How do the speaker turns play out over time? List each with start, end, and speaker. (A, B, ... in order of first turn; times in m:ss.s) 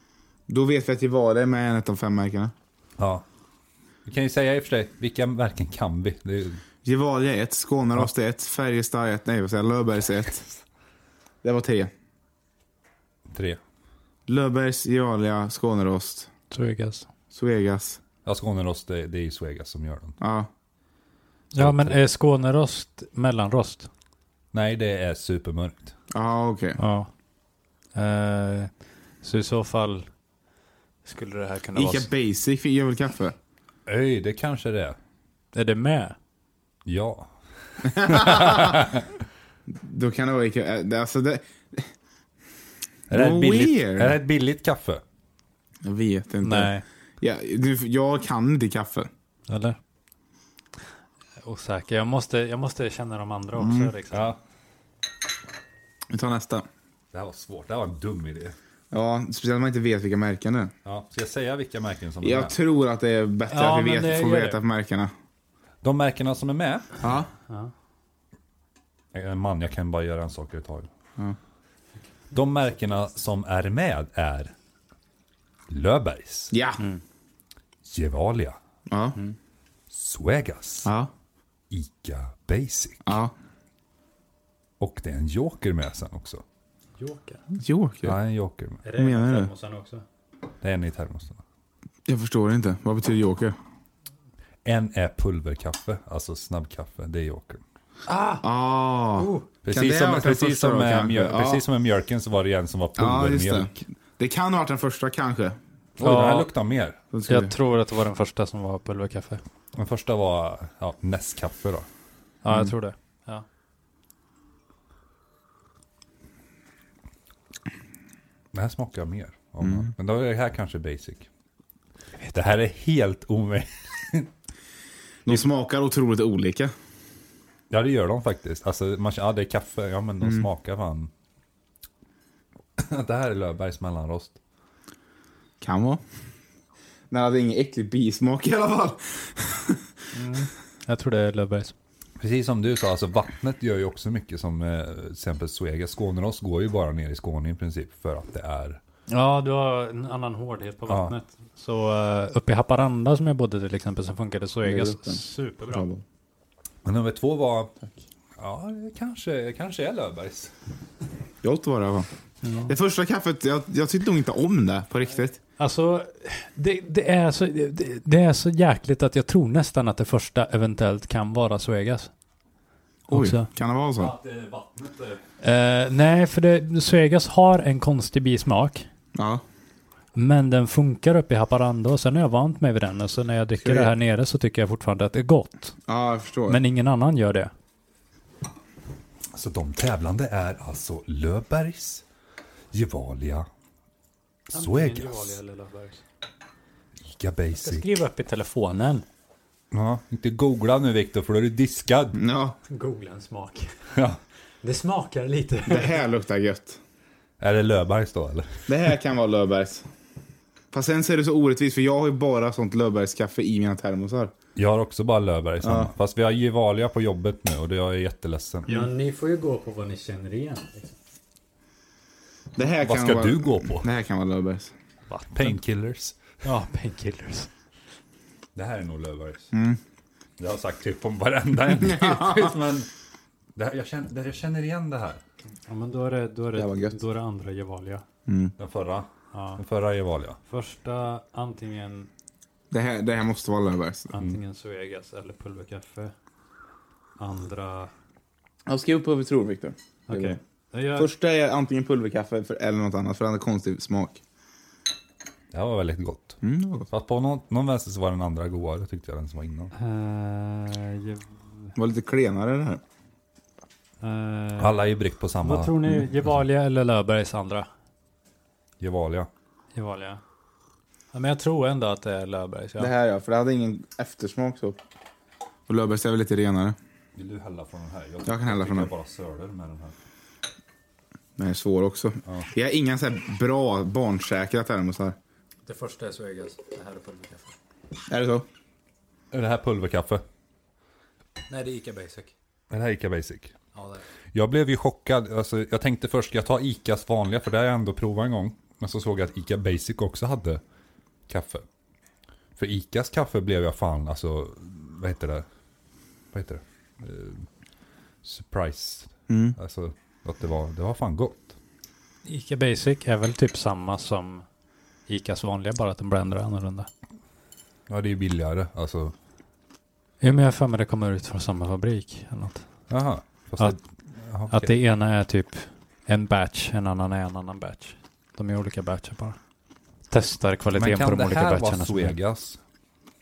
0:00.5-0:02.5 A
0:03.0-0:03.2 B
0:04.0-0:06.6 B
0:06.8-0:10.5 A
0:11.4-0:11.9 A
0:13.3-0:13.6 B
0:14.3-0:16.3 A
0:16.5-0:17.1 C
0:17.3-0:18.0 A
0:18.2-0:20.2 B
0:20.2-0:20.5 A
0:21.5-0:23.9 C
0:21.5-0:22.0 B
0:24.5-0:25.9 B
0:26.1-0:26.8 A
0:26.8-0:27.1 C
0:27.9-0:28.7 C
0:29.2-0:30.1 C
0:31.0-0:32.1 C
0:31.7-0:33.3 A
0:33.9-0:35.0 B
0:35.5-0:36.2 C
0:36.8-0:39.1 B
0:37.8-0:38.9 A
0:39.7-0:41.9 A
0:43.1-0:44.2 A
0:43.1-0:45.0 B
0:45.8-0:49.1 A
0:46.4-0:46.8 C
0:49.5-0:49.8 C
0:51.4-0:54.3 C
0:53.6-0:53.9 A
0:54.1-0:54.4 B
0:56.1-0:56.7 A
0:57.1-0:58.5 B
0:58.9-1:00.7 A
1:00.8-1:02.5 B
1:02.2-1:05.1 A
1:03.5-1:04.6 C
1:05.8-1:06.9 B
1:07.0-1:07.3 A
1:09.1-1:10.9 B
1:12.3-1:14.5 B
1:15.7-1:16.5 B
1:16.5-1:16.8 A
1:17.8-1:18.6 B
1:18.9-1:19.2 A
1:19.9-1:20.9 B
1:20.8-1:21.1 A
1:21.7-1:23.2 B
1:23.0-1:23.3 A
1:24.8-1:26.4 B
1:27.0-1:27.4 C
1:27.5-1:28.1 A
1:28.0-1:28.8 B
1:28.8-1:30.0 C
1:29.0-1:29.5 A
1:30.6-1:31.4 B
1:32.1-1:33.6 A
1:34.6-1:37.6 B
1:38.1-1:38.4 C
1:38.4-1:41.6 A
1:39.1-1:39.5 C
1:39.6-1:43.7 B
1:43.0-1:45.6 A
1:46.0-1:47.0 B
1:46.0-1:46.5 C
1:47.1-1:47.5 A
1:47.3-1:49.4 C
1:49.7-1:51.9 B
1:52.4-1:53.4 C
1:58.5-2:01.3 B
1:59.6-1:59.9 A
2:02.3-2:04.3 B
2:05.2-2:06.7 A
2:07.7-2:11.1 B
2:10.2-2:10.5 A
2:12.8-2:14.4 B
2:15.6-2:16.0 A
2:17.1-2:19.8 A
2:20.1-2:21.7 C
2:22.2-2:28.8 B
2:29.1-2:35.9 C
2:30.9-2:31.1 B
2:34.6-2:36.0 A
2:36.8-2:37.7 B
2:38.4-2:40.5 B
2:41.4-2:42.1 A
2:42.4-2:42.7 C
2:42.6-2:45.4 A
2:45.6-2:52.1 C
2:53.1-2:54.1 A
2:53.1-2:53.5 C
2:54.0-2:55.2 B
2:55.4-2:58.9 C
2:59.1-2:59.4 A
3:00.1-3:05.7 C
3:03.6-3:03.9 A
3:05.9-3:06.6 A
3:06.5-3:07.5 C
3:09.3-3:12.0 B
3:12.7-3:13.5 B
3:14.5-3:15.4 B
3:14.5-3:16.0 C
3:17.0-3:17.9 B
3:17.6-3:19.0 C
3:19.7-3:22.2 B
3:22.2-3:22.6 A
3:22.7-3:23.8 C
3:24.6-3:26.0 C
3:25.6-3:26.8 A
3:27.4-3:28.6 B
3:28.7-3:29.9 A
3:30.7-3:34.3 A
3:34.6-3:38.7 B
3:35.6-3:35.9 A
3:38.7-3:40.9 C
3:42.6-3:44.7 A
3:42.8-3:43.9 B
3:45.1-3:45.6 C
3:45.3-3:46.2 B
3:46.4-3:47.5 C
3:48.5-3:49.5 B
3:49.5-3:49.8 A
3:50.4-3:52.9 B
3:51.7-3:52.6 A
3:53.6-3:55.2 B
3:55.7-3:58.0 C
3:56.5-3:57.0 A
3:58.3-3:58.5 A
3:58.6-4:00.4 B
3:59.3-3:59.6 C
4:00.5-4:02.1 C
4:02.7-4:04.1 A
4:04.1-4:06.1 C
4:07.2-4:07.9 C
4:08.7-4:10.4 A
4:10.1-4:11.1 C
4:10.9-4:14.2 A
4:15.5-4:16.4 B
4:16.4-4:16.9 A
4:16.9-4:19.7 B
4:19.7-4:21.7 C
4:21.8-4:22.8 A
4:24.0-4:24.8 C
4:24.6-4:26.3 B
4:25.4-4:27.7 C
4:28.8-4:29.3 B
4:29.7-4:30.2 C
4:31.1-4:32.9 C
4:32.8-4:34.8 A
4:35.7-4:36.8 A
4:37.1-4:40.0 B
4:38.2-4:38.9 A
4:41.4-4:45.2 A
4:45.6-4:47.5 C
4:48.1-4:48.4 A
4:49.3-4:50.2 B
4:51.5-4:52.3 C
4:52.7-4:53.5 B
4:53.7-4:54.0 C
4:54.3-5:00.6 B
5:01.3-5:01.6 B
5:02.6-5:05.4 B
5:06.3-5:07.4 B
5:08.2-5:11.5 B
5:09.3-5:09.6 A
5:12.2-5:14.4 C
5:15.1-5:16.9 C
5:17.9-5:19.1 B
5:20.2-5:22.6 C
5:22.9-5:24.7 B
5:24.5-5:29.4 C
5:30.1-5:32.2 C
5:30.7-5:32.6 B